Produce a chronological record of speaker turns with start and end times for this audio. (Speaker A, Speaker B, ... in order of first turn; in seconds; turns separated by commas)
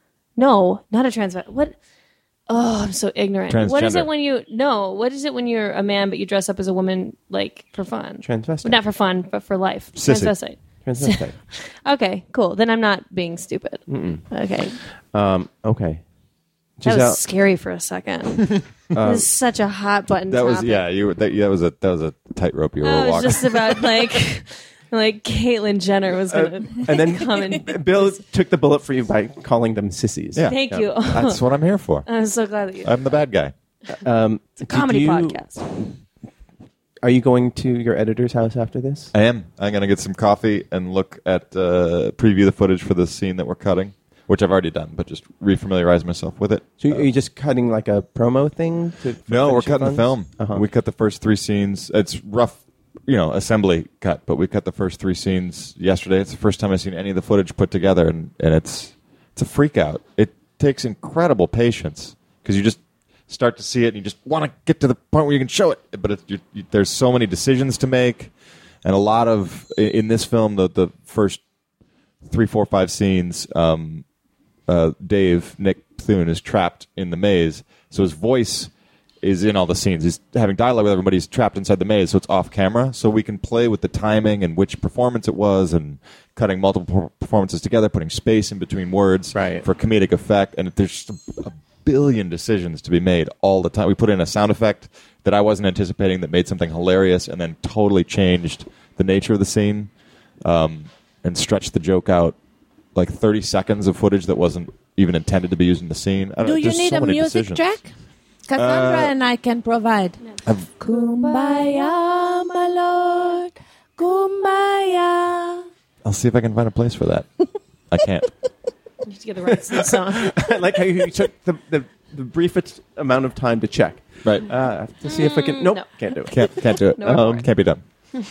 Speaker A: 0.4-1.8, Speaker A: 2.5-14.8, Speaker B: 3.5-4.1, Speaker C: 8.2-8.8, Speaker B: 9.9-10.3, Speaker C: 10.8-11.3, Speaker C: 13.9-14.3, Speaker C: 15.0-16.0, Speaker C: 16.8-17.2, Speaker A: 16.8-20.8, Speaker C: 18.9-19.3, Speaker B: 20.3-24.1, Speaker A: 22.8-28.2, Speaker C: 26.3-30.5, Speaker B: 30.3-32.1, Speaker A: 30.5-31.4, Speaker A: 32.0-32.9, Speaker B: 32.8-33.5, Speaker C: 34.0-35.8, Speaker A: 34.6-35.6, Speaker C: 37.0-39.1, Speaker B: 39.1-47.0, Speaker C: 46.8-50.6, Speaker B: 49.3-68.3, Speaker B: 68.8-71.4, Speaker B: 72.2-74.0, Speaker B: 74.7-78.7, Speaker B: 79.2-99.9, Speaker C: 89.3-89.7, Speaker B: 100.4-102.3, Speaker B: 102.9-107.7, Speaker D: 106.4-107.9, Speaker D: 108.5-110.2, Speaker B: 108.5-109.1, Speaker D: 110.8-115.7, Speaker B: 116.0-118.3, Speaker A: 119.0-120.3, Speaker C: 119.5-127.5, Speaker A: 125.0-125.8, Speaker B: 126.3-127.8, Speaker A: 127.0-127.4